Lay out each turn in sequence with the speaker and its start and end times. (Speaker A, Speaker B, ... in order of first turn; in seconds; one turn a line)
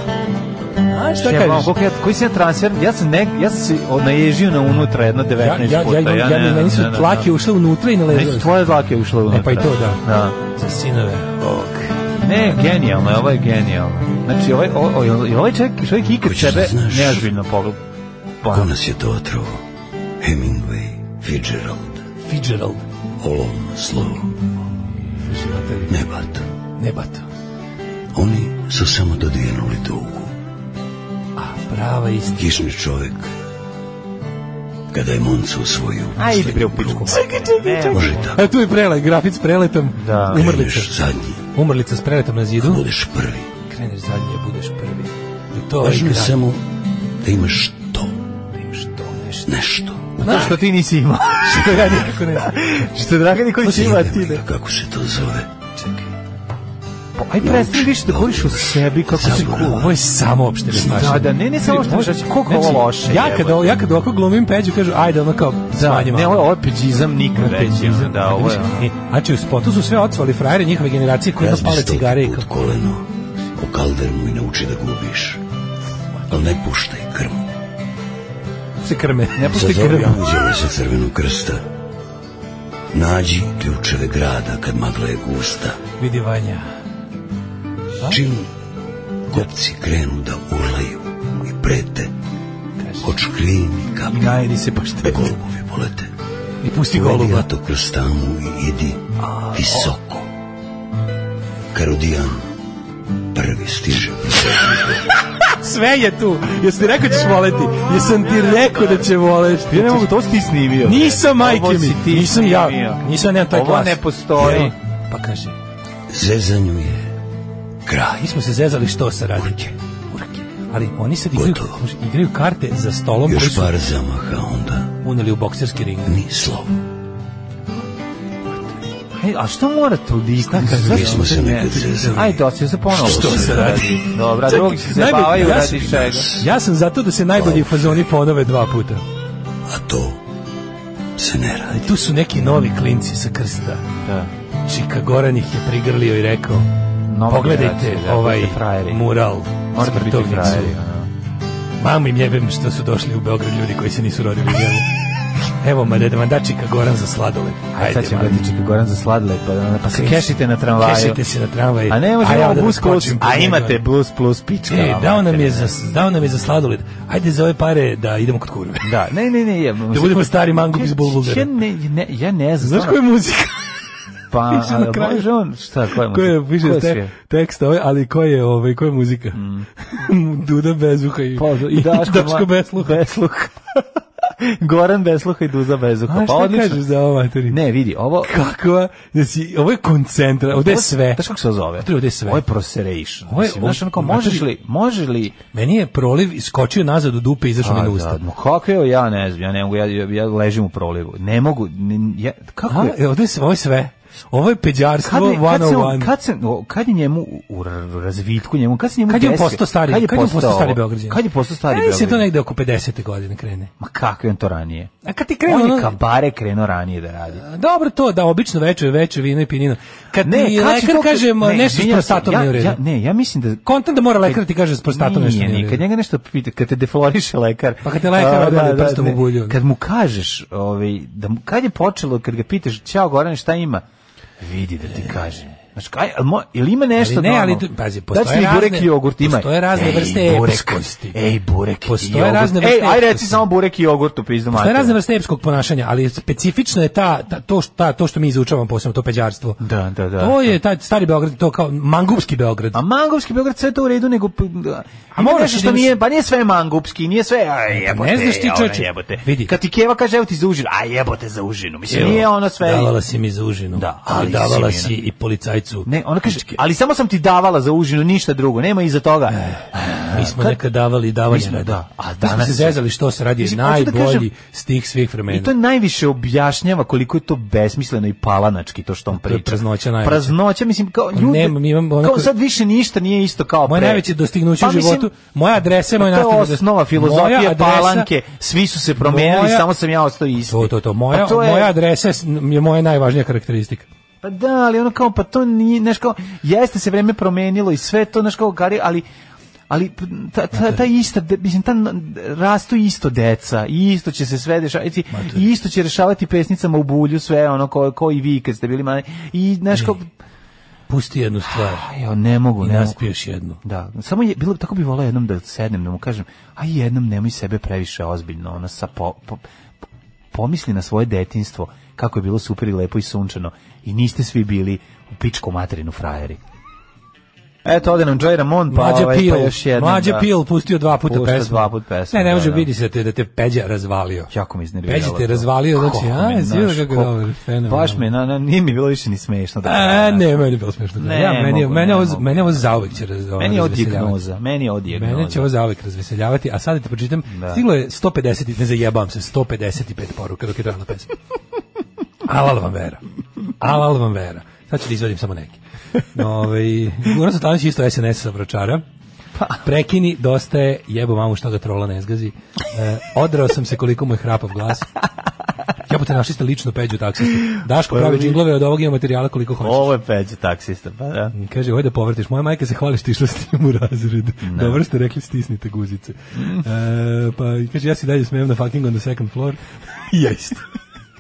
Speaker A: 0.9-1.7
Speaker B: 1.2-7.3
Speaker A: 5.4-8.5
Speaker B: 8.1-10.4
Speaker A: 9.3-12.0
Speaker B: 12.2-17.8
Speaker C: 16.2-17.3
Speaker B: 18.4-18.7
Speaker C: 18.5-19.6
Speaker C: 20.2-22.1
Speaker A: 22.2-22.9
Speaker C: 23.2-24.5
Speaker A: 25.2-26.0
Speaker C: 25.9-26.5
Speaker A: 26.8-27.3
Speaker C: 28.1-30.3
Speaker A: 31.4-32.6
Speaker C: 32.4-33.3
Speaker C: 34.9-37.2
Speaker B: 36.2-38.4
Speaker A: 37.1-41.0
Speaker C: 37.9-38.5
Speaker B: 40.0-40.5
Speaker C: 40.3-41.4
Speaker A: 41.5-42.9
Speaker C: 42.6-43.5
Speaker A: 43.7-46.4
Speaker C: 45.8-48.3
Speaker A: 48.5-49.5
Speaker C: 49.5-50.5
Speaker A: 50.2-50.6
Speaker B: 50.2-54.4
Speaker A: 51.4-52.7
Speaker A: 53.6-54.4
Speaker C: 53.7-55.5
Speaker A: 55.8-56.1
Speaker B: 57.2-59.9
Speaker C: 57.4-60.0
Speaker A: 59.2-66.5
Speaker B: 60.7-63.7
Speaker B: 65.7-68.9
Speaker A: 67.3-72.5
Speaker C: 71.4-75.4
Speaker C: 76.3-77.5
Speaker A: 78.8-80.2
Speaker B: 79.3-80.3
Speaker C: 79.5-81.6
Speaker C: 82.9-85.8
Speaker A: 86.0-86.7
Speaker C: 88.1-88.5
Speaker C: 89.3-92.1
Speaker A: 92.8-93.1
Speaker C: 93.0-94.4
Speaker B: 94.1-95.3
Speaker C: 95.0-96.1
Speaker A: 96.6-97.5
Speaker C: 96.9-100.3
Speaker C: 101.7-102.5
Speaker C: 103.3-105.0
Speaker A: 105.5-110.1
Speaker B: 109.7-114.7
Speaker A: 110.8-115.6
Speaker C: 114.4-114.7
Speaker C: 116.1-117.1
Speaker C: 117.8-118.4
Speaker A: 118.2-123.7
Speaker C: 119.4-119.7
Speaker C: 121.3-121.8
Speaker C: 123.3-125.0
Speaker A: 125.0-126.2
Speaker C: 126.1-126.8
Speaker B: 129.2-136.3
Speaker A: 130.5-132.4
Speaker C: 130.7-134.0
Speaker A: 132.9-139.0
Speaker C: 135.3-136.5
Speaker C: 137.3-138.1
Speaker C: 139.7-140.2
Speaker C: 141.2-141.9
Speaker A: 141.7-143.8
Speaker B: 144.0-144.3
Speaker A: 144.7-146.7
Speaker B: 147.1-149.0
Speaker A: 147.3-150.8
Speaker B: 149.7-151.1
Speaker A: 151.8-154.9
Speaker A: 155.6-158.5
Speaker B: 157.7-161.2
Speaker A: 159.9-163.8
Speaker B: 161.9-165.8
Speaker A: 164.7-168.9
Speaker B: 168.8-173.0
Speaker A: 169.9-171.5
Speaker A: 172.6-173.6
Speaker B: 174.3-177.1
Speaker A: 174.5-175.3
Speaker A: 176.1-183.0
Speaker B: 179.3-179.7
Speaker B: 181.4-186.8
Speaker A: 186.1-187.6
Speaker B: 187.5-188.3
Speaker A: 188.2-191.2
Speaker B: 190.5-195.4
Speaker A: 191.8-192.4
Speaker A: 193.3-194.5
Speaker A: 195.5-198.2
Speaker B: 197.6-203.0
Speaker A: 202.7-206.1
Speaker B: 205.0-212.3
Speaker A: 209.1-213.7
Speaker B: 213.8-214.9
Speaker A: 215.0-216.0
Speaker B: 215.5-217.4
Speaker A: 217.3-222.8
Speaker B: 220.2-223.7
Speaker A: 223.7-225.8
Speaker B: 224.2-233.8
Speaker A: 227.8-229.6
Speaker B: 234.4-245.0
Speaker A: 237.0-241.2
Speaker A: 241.9-243.4
Speaker A: 244.5-249.6
Speaker B: 249.6-250.6
Speaker A: 250.2-252.8
Speaker B: 252.7-262.9
Speaker A: 255.2-255.9
Speaker A: 257.7-259.5
Speaker A: 261.9-266.6
Speaker B: 263.7-265.0
Speaker B: 265.9-270.6
Speaker A: 269.3-275.5
Speaker B: 271.3-272.8
Speaker B: 273.4-274.3
Speaker B: 275.3-285.1
Speaker A: 279.1-280.4
Speaker A: 281.1-282.3
Speaker A: 283.7-288.1
Speaker B: 286.0-291.7
Speaker A: 289.0-289.7
Speaker A: 290.5-293.9
Speaker B: 294.2-299.1
Speaker B: 299.7-310.1
Speaker A: 300.6-300.8
Speaker A: 305.1-305.4
Speaker A: 310.9-311.9
Speaker B: 311.5-313.1
Speaker A: 312.6-313.6
Speaker B: 313.6-319.4
Speaker B: 320.3-326.4
Speaker B: 327.6-330.3
Speaker A: 328.7-334.3
Speaker B: 331.0-332.7
Speaker B: 334.3-340.3
Speaker A: 334.9-338.1
Speaker A: 339.6-344.2
Speaker B: 341.0-345.5
Speaker A: 344.9-351.1
Speaker B: 347.3-347.6
Speaker A: 352.2-353.0
Speaker A: 353.6-358.8
Speaker A: 359.6-364.9
Speaker A: 365.9-369.9
Speaker B: 367.9-368.4
Speaker B: 369.6-371.4
Speaker A: 371.4-380.7
Speaker B: 374.4-374.8
Speaker B: 376.4-376.7